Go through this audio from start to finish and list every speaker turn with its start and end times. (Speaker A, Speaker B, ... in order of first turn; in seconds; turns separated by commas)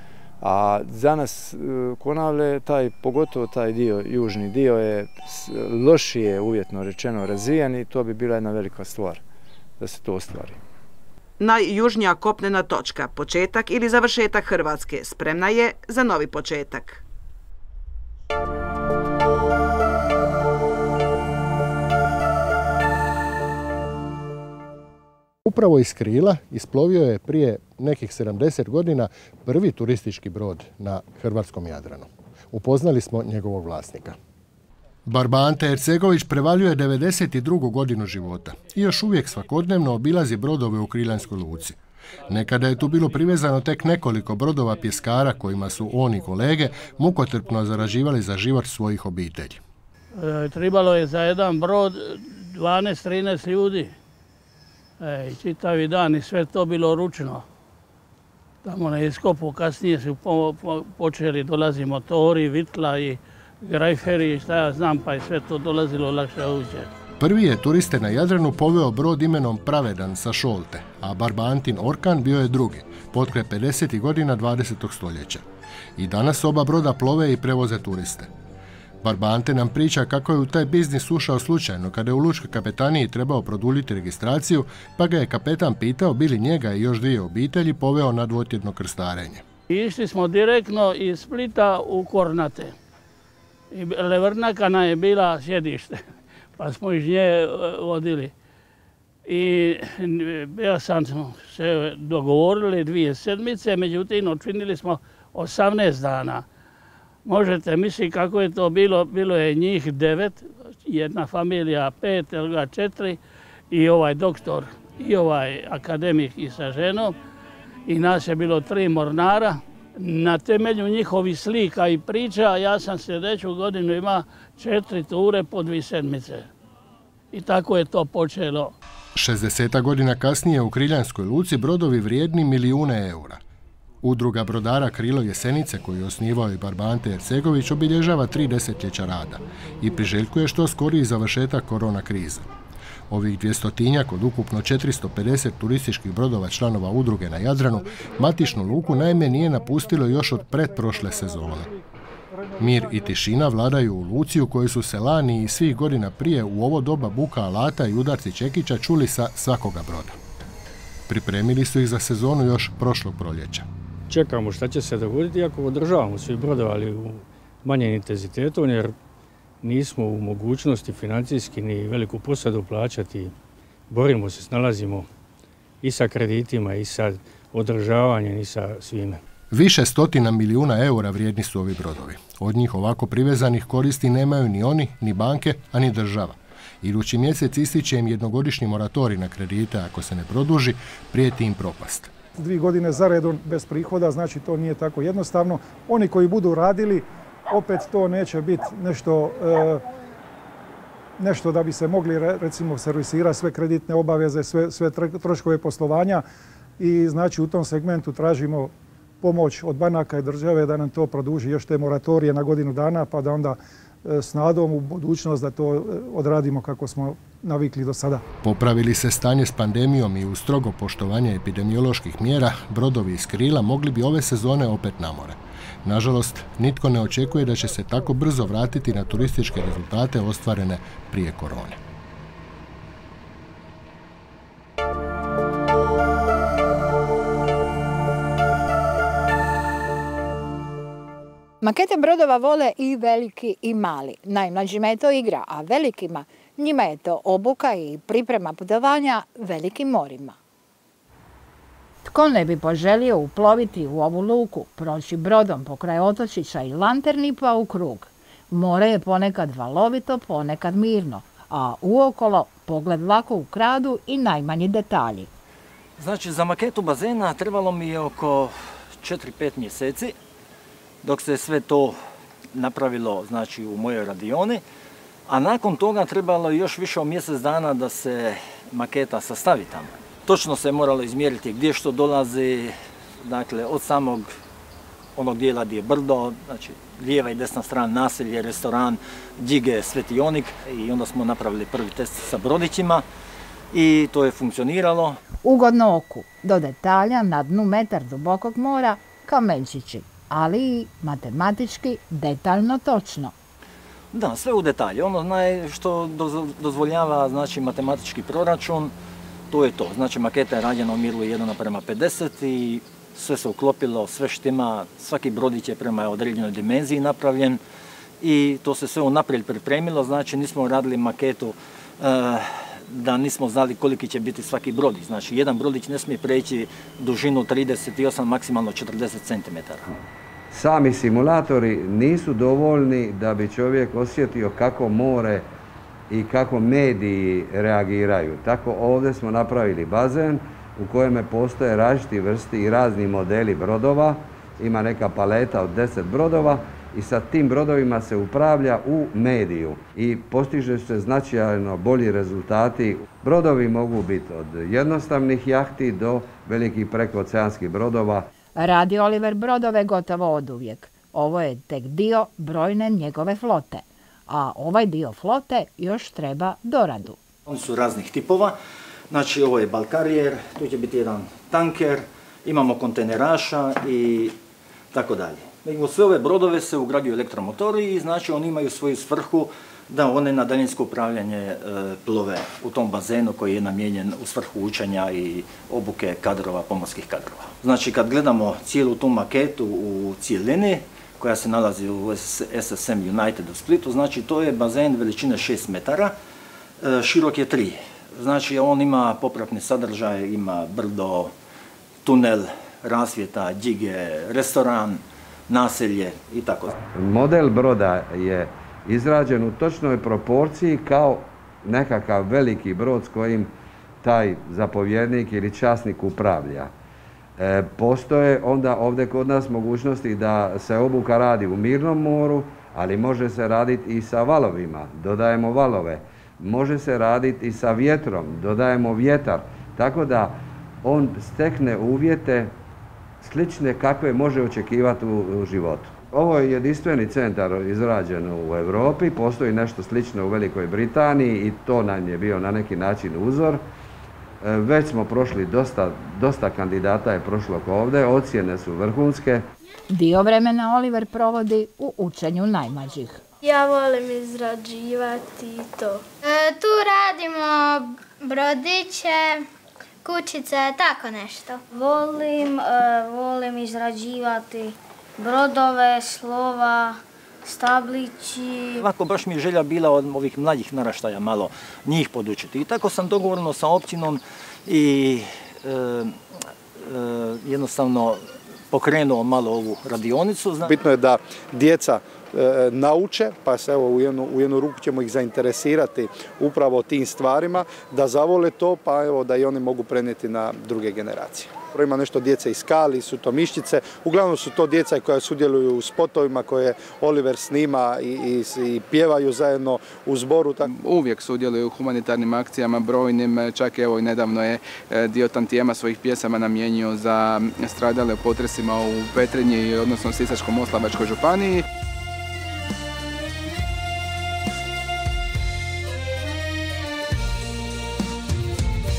Speaker A: 0.4-9.2, Speaker A: 9.8-10.6, Speaker B: 11.4-17.0, Speaker C: 25.4-34.1, Speaker C: 35.0-49.6, Speaker D: 50.2-53.9, Speaker D: 55.0-57.4, Speaker D: 58.6-66.9, Speaker C: 67.2-75.4, Speaker C: 76.0-78.3, Speaker C: 79.0-89.4, Speaker D: 89.7-92.7, Speaker D: 93.7-96.0, Speaker D: 96.6-98.3, Speaker D: 99.3-106.4, Speaker D: 107.2-113.2, Speaker D: 113.7-117.1, Speaker D: 117.9-126.5, Speaker D: 127.3-128.7, Speaker C: 129.1-133.4, Speaker C: 134.0-142.5, Speaker C: 143.1-151.7, Speaker C: 152.6-160.2, Speaker C: 161.1-163.7, Speaker E: 164.1-168.9, Speaker E: 169.6-173.3, Speaker E: 173.9-175.1, Speaker E: 175.8-179.2, Speaker C: 179.5-192.1, Speaker F: 192.4-199.8, Speaker F: 201.2-206.2, Speaker F: 206.8-218.2, Speaker C: 218.4-231.8, Speaker G: 241.6-250.3, Speaker G: 252.0-265.3, Speaker H: 266.0-270.1, Speaker H: 271.0-272.0, Speaker H: 272.5-274.6, Speaker H: 275.3-284.3, Speaker H: 285.1-293.1, Speaker H: 293.7-295.2, Speaker G: 295.4-303.3, Speaker H: 304.1-308.9, Speaker H: 309.5-317.6, Speaker H: 318.2-330.0, Speaker I: 330.5-335.5, Speaker I: 336.1-358.3, Speaker G: 358.6-367.2, Speaker H: 367.5-368.6, Speaker H: 369.1-374.4, Speaker H: 374.9-396.1, Speaker H: 396.8-401.3, Speaker H: 402.0-406.8, Speaker I: 406.9-413.5, Speaker I: 414.0-416.7, Speaker I: 417.4-432.5, Speaker I: 433.2-443.6, Speaker I: 444.4-449.4, Speaker G: 449.9-453.2, Speaker J: 453.4-459.4, Speaker J: 460.0-468.9, Speaker H: 468.8-476.2, Speaker H: 476.8-480.8, Speaker K: 480.6-500.7, Speaker L: 500.7-511.6